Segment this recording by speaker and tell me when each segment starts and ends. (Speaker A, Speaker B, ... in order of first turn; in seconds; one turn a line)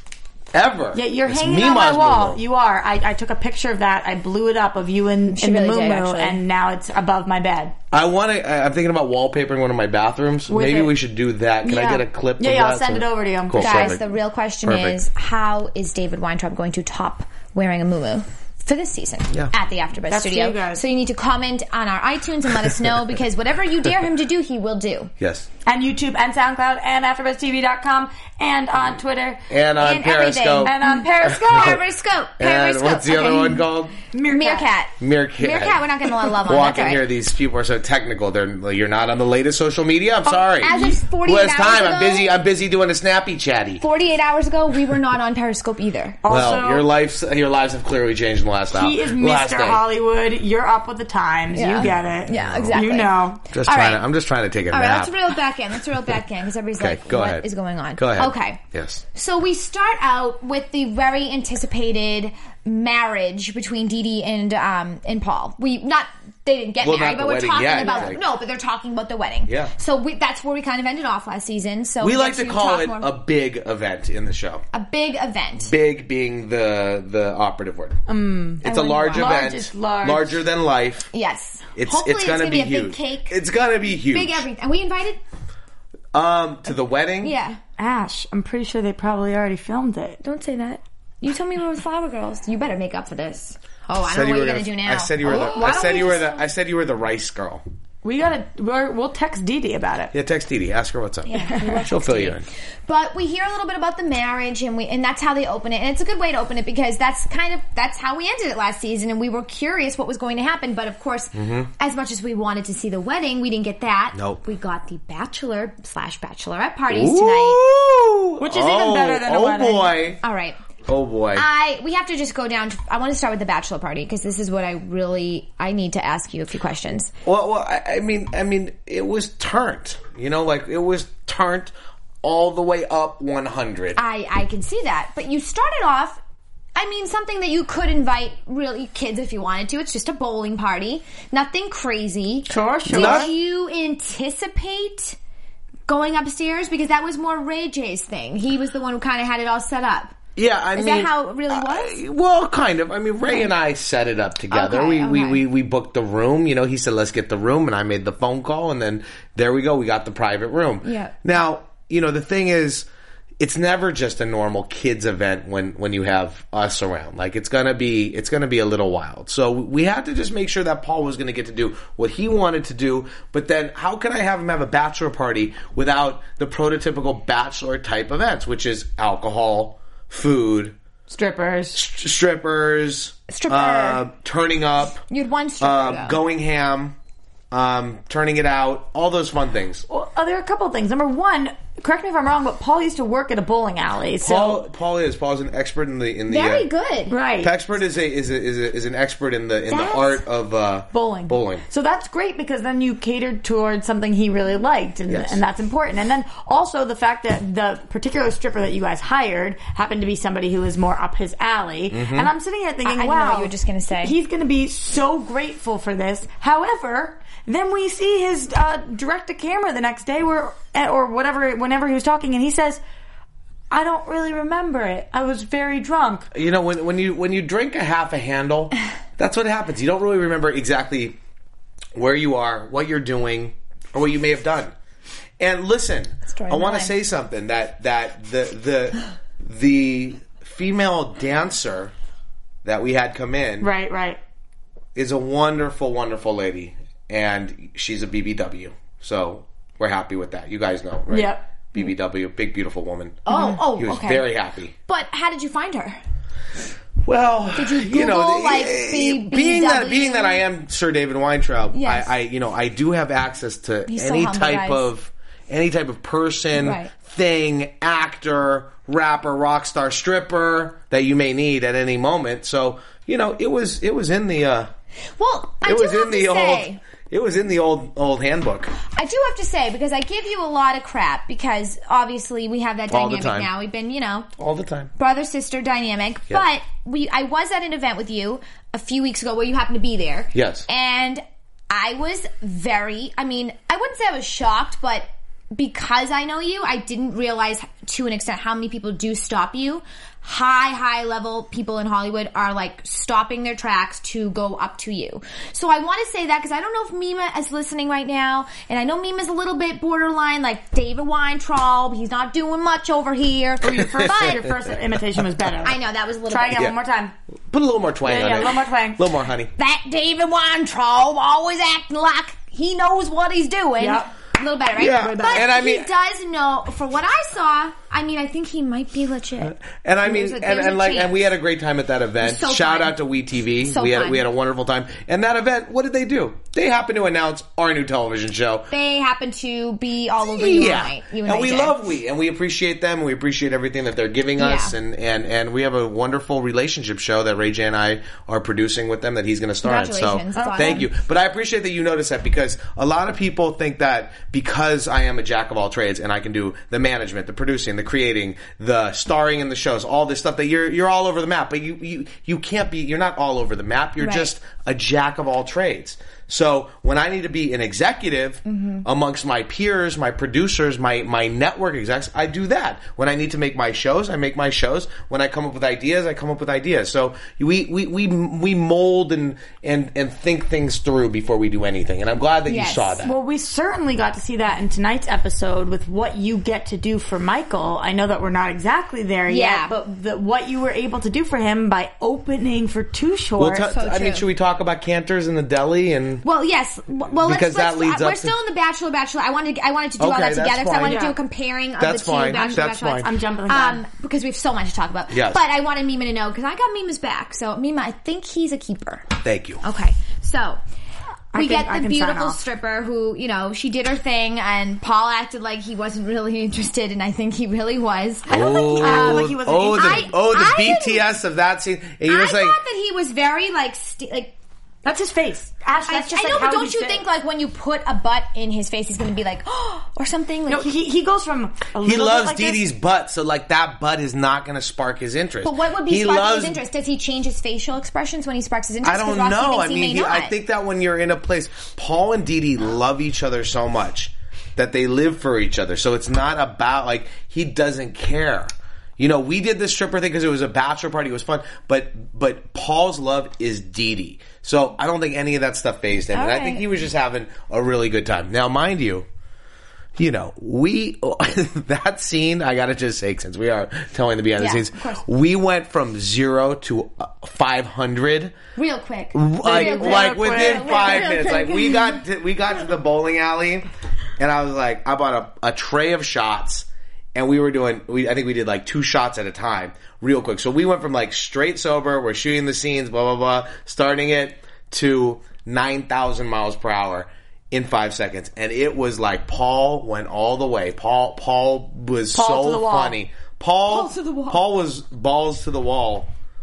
Speaker A: 0.5-2.4
Speaker B: 0.9-7.8
Speaker C: 5.3-6.4
Speaker A: 7.9-14.0
Speaker B: 10.5-10.9
Speaker B: 11.6-14.0
Speaker C: 13.6-25.1
Speaker A: 14.6-15.0
Speaker B: 20.1-20.8
Speaker A: 25.2-25.5
Speaker B: 25.7-29.5
Speaker A: 29.5-30.7
Speaker C: 29.8-33.6
Speaker B: 30.6-31.8
Speaker A: 32.4-33.9
Speaker B: 34.1-34.7
Speaker C: 34.3-37.0
Speaker A: 35.0-43.8
Speaker B: 40.3-41.0
Speaker C: 40.6-42.3
Speaker C: 43.8-46.2
Speaker B: 46.2-46.9
Speaker A: 46.3-49.8
Speaker B: 48.7-53.4
Speaker C: 51.5-54.0
Speaker A: 51.9-52.8
Speaker A: 53.5-55.1
Speaker C: 54.7-58.6
Speaker A: 56.8-59.0
Speaker C: 59.1-73.1
Speaker A: 66.8-68.2
Speaker B: 67.8-68.1
Speaker A: 69.5-69.7
Speaker A: 72.0-74.6
Speaker C: 74.7-75.7
Speaker A: 75.7-78.0
Speaker B: 78.1-80.4
Speaker A: 78.6-81.1
Speaker C: 78.9-79.3
Speaker C: 81.1-83.3
Speaker A: 81.8-84.5
Speaker C: 84.1-85.2
Speaker A: 86.1-87.3
Speaker C: 87.2-87.6
Speaker B: 87.8-90.2
Speaker C: 90.2-96.4
Speaker A: 94.1-97.6
Speaker B: 95.3-95.6
Speaker B: 98.0-100.1
Speaker A: 100.1-102.5
Speaker C: 101.3-117.6
Speaker B: 101.5-101.8
Speaker A: 111.3-111.7
Speaker A: 114.2-114.4
Speaker A: 116.9-120.2
Speaker B: 118.4-120.0
Speaker C: 120.2-120.6
Speaker A: 120.9-121.5
Speaker C: 121.3-127.1
Speaker A: 127.2-134.0
Speaker C: 134.0-136.2
Speaker C: 136.8-145.2
Speaker B: 142.5-143.3
Speaker A: 142.9-143.3
Speaker C: 145.9-150.2
Speaker A: 150.4-162.9
Speaker C: 150.7-152.0
Speaker C: 154.5-155.4
Speaker C: 160.8-161.2
Speaker A: 163.4-180.8
Speaker B: 181.1-181.8
Speaker A: 181.7-185.0
Speaker C: 183.3-184.0
Speaker C: 185.1-186.2
Speaker A: 185.6-187.0
Speaker A: 187.5-189.8
Speaker B: 189.9-194.6
Speaker A: 194.2-196.7
Speaker C: 196.3-197.2
Speaker B: 197.1-197.6
Speaker A: 197.4-201.6
Speaker C: 199.7-200.2
Speaker B: 200.9-222.8
Speaker A: 205.1-205.4
Speaker A: 211.9-212.3
Speaker C: 212.8-214.2
Speaker B: 223.7-226.3
Speaker A: 226.3-231.2
Speaker A: 231.9-234.7
Speaker A: 235.4-241.9
Speaker C: 236.3-236.9
Speaker A: 242.6-243.7
Speaker B: 243.6-244.2
Speaker A: 244.9-254.7
Speaker B: 251.1-251.5
Speaker C: 253.3-254.3
Speaker B: 253.3-253.6
Speaker C: 254.9-256.0
Speaker A: 257.1-274.7
Speaker C: 257.6-260.4
Speaker C: 261.7-262.1
Speaker C: 263.9-264.9
Speaker C: 266.6-266.9
Speaker C: 275.2-276.8
Speaker A: 275.6-278.8
Speaker C: 278.9-284.3
Speaker A: 282.9-283.5
Speaker A: 284.4-284.9
Speaker C: 285.0-314.4
Speaker A: 290.3-290.7
Speaker B: 313.6-317.1
Speaker C: 315.6-316.7
Speaker A: 317.5-319.5
Speaker B: 318.1-319.1
Speaker C: 319.6-329.5
Speaker B: 323.8-324.1
Speaker A: 324.8-325.9
Speaker A: 329.4-338.7
Speaker C: 330.1-331.3
Speaker C: 332.2-333.0
Speaker C: 333.6-334.2
Speaker C: 338.7-341.8
Speaker A: 340.2-383.1
Speaker C: 344.4-344.7
Speaker C: 349.6-350.9
Speaker B: 350.4-350.8
Speaker C: 364.0-364.3
Speaker C: 368.5-368.9
Speaker C: 382.5-383.0
Speaker B: 383.0-393.7
Speaker C: 389.3-389.7
Speaker A: 393.4-396.2
Speaker C: 393.7-394.3
Speaker C: 396.2-409.1
Speaker A: 397.2-398.3
Speaker A: 400.0-401.0
Speaker B: 400.8-401.2
Speaker A: 401.8-403.1
Speaker B: 402.3-403.8
Speaker A: 405.1-405.4
Speaker A: 409.2-409.6
Speaker C: 409.6-410.6
Speaker B: 411.3-412.4
Speaker C: 411.3-421.0
Speaker A: 418.3-422.6
Speaker B: 418.4-420.1
Speaker C: 422.1-424.4
Speaker B: 424.8-427.0
Speaker C: 425.9-430.7
Speaker B: 430.5-432.7
Speaker A: 431.8-436.6
Speaker C: 435.4-440.3
Speaker A: 438.8-459.1
Speaker C: 456.1-456.7
Speaker A: 460.0-468.4
Speaker C: 464.4-465.0
Speaker C: 468.6-472.0
Speaker A: 469.1-473.7
Speaker B: 469.4-471.1
Speaker A: 474.2-496.1
Speaker B: 492.1-493.0
Speaker C: 493.7-494.4